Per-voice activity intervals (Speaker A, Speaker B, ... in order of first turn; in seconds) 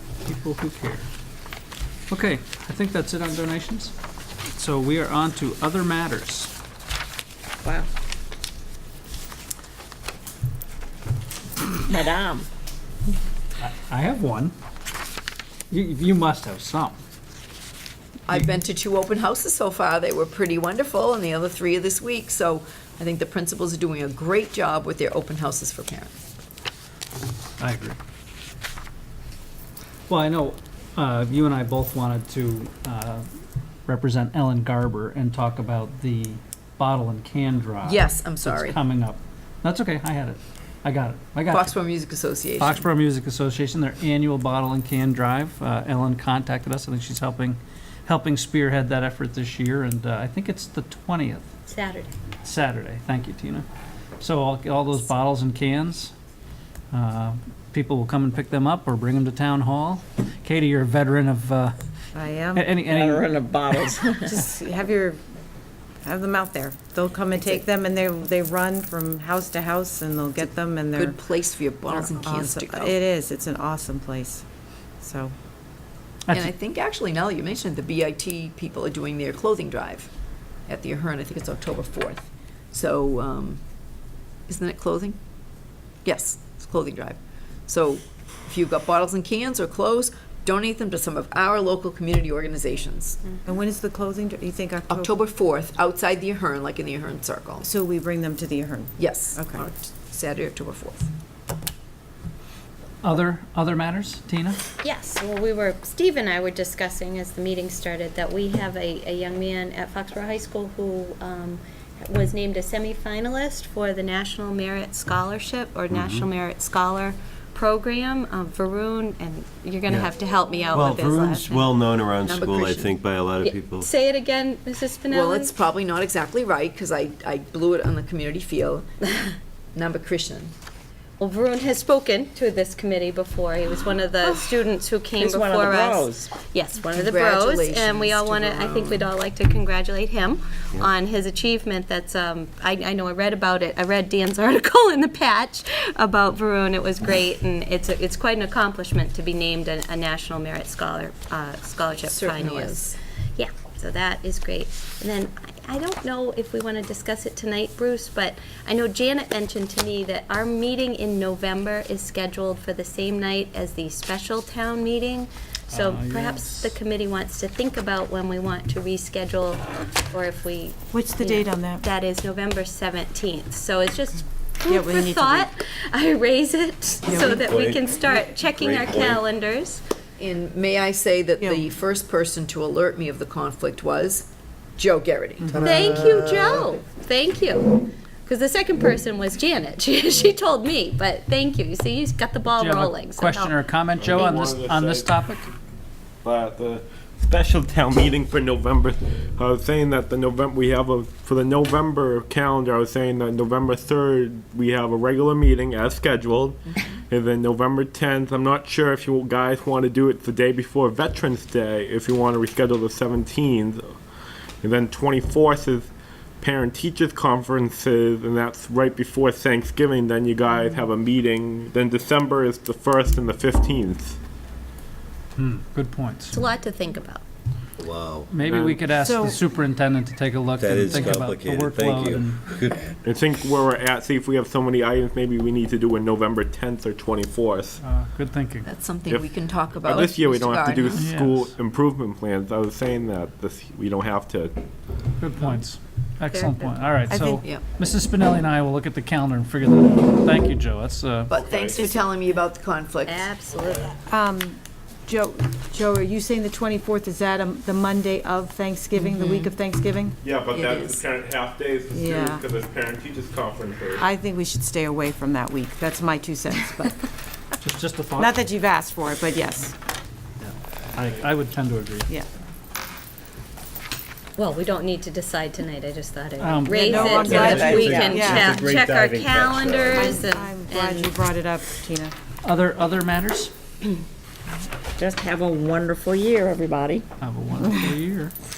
Speaker A: 0.2-1.1, 2.1-3.9, 4.4-6.5, 13.6-14.5, 15.7-17.0, 27.6-28.0, 30.1-33.2, 33.9-41.8, 42.6-51.5, 52.4-53.6, 54.2-56.1, 56.9-61.7, 62.5-63.3, 76.3-76.5, 103.0-104.6, 165.7-166.8, 192.5-195.5, 225.4-226.4, 228.3-232.4, 237.8-238.7, 241.0-241.5, 245.2-251.3, 267.6-268.4, 270.4-272.1, 276.4-277.2, 282.4-283.5, 287.2-288.3
Speaker B: 11.9-12.5, 62.9-64.3, 134.2-134.5, 135.1-136.3, 277.1-278.6, 285.0-287.1
Speaker C: 18.3-26.2, 37.8-38.8, 41.5-42.9, 70.9-73.0, 76.3-80.1, 80.7-83.6, 84.5-85.2, 86.0-93.2, 94.9-97.7, 99.0-101.1, 122.2-122.9, 125.1-128.9, 129.7-130.5, 136.9-139.1, 151.9-153.0, 180.2-186.4, 238.7-241.1, 251.3-253.3, 258.9-259.5, 260.5-261.1
Speaker D: 51.7-52.1, 104.8-121.7, 123.4-125.5, 131.2-179.8, 185.6-193.5, 226.3-227.2, 246.3-246.7, 253.1-253.9, 274.4-281.1
Speaker E: 62.1-62.6, 64.3-65.2, 66.0-71.2, 71.9-74.5, 75.0-75.3, 93.5-95.1, 97.6-99.7, 120.6-121.4, 170.9-171.8, 174.7-175.5, 177.1-177.4, 181.4-181.7, 229.0-229.4, 247.1-247.4, 254.1-260.2, 261.9-262.4, 264.0-267.1, 268.2-269.8, 276.7-278.7, 279.9-282.1
Speaker F: 115.9-116.3, 120.7-123.9, 177.3-179.2, 186.1-186.6, 227.8-228.3, 230.6-232.9, 277.2-280.2
Speaker G: 194.0-195.1, 196.2-213.9, 214.6-224.2, 228.4-228.8, 233.0-237.8, 239.1-244.6, 251.3-251.9, 260.2-264.1